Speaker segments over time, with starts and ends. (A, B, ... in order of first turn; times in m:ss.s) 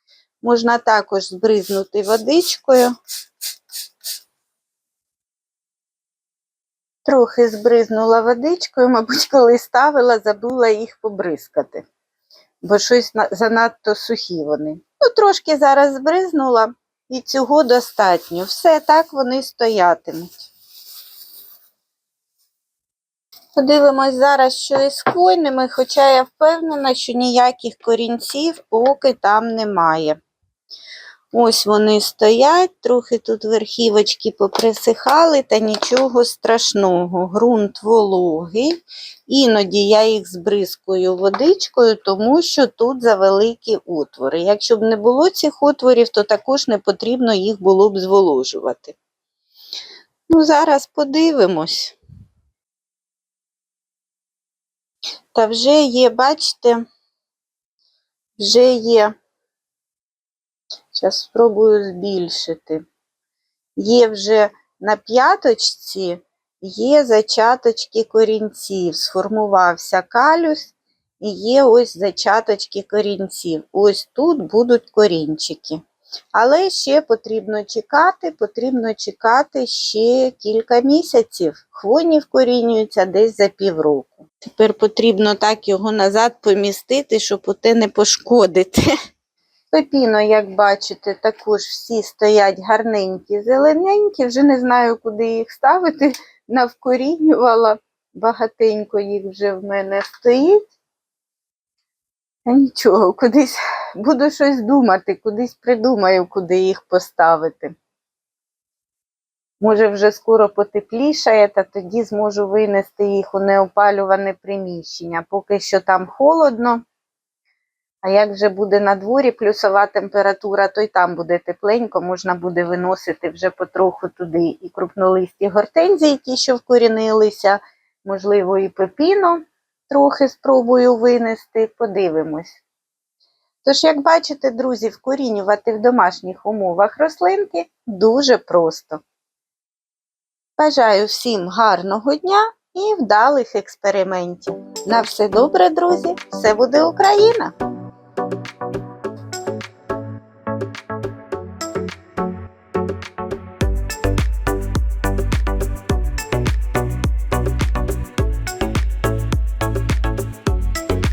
0:00.4-0:02.9 A
0:07.0-0:11.8 A
0:12.6-0:20.5 A
0:23.5-0:30.2 A
0:31.3-0:49.0 A
0:50.3-0:52.0 A
0:55.3-0:56.8 A
0:58.4-0:59.1 A
1:00.9-1:02.8 A
1:03.8-1:15.8 A
1:16.3-1:28.9 A
1:29.7-1:40.7 A
1:42.4-1:47.7 A
1:49.6-1:56.8 A
1:58.0-2:12.6 A
2:13.6-2:19.0 A
2:20.6-2:27.5 A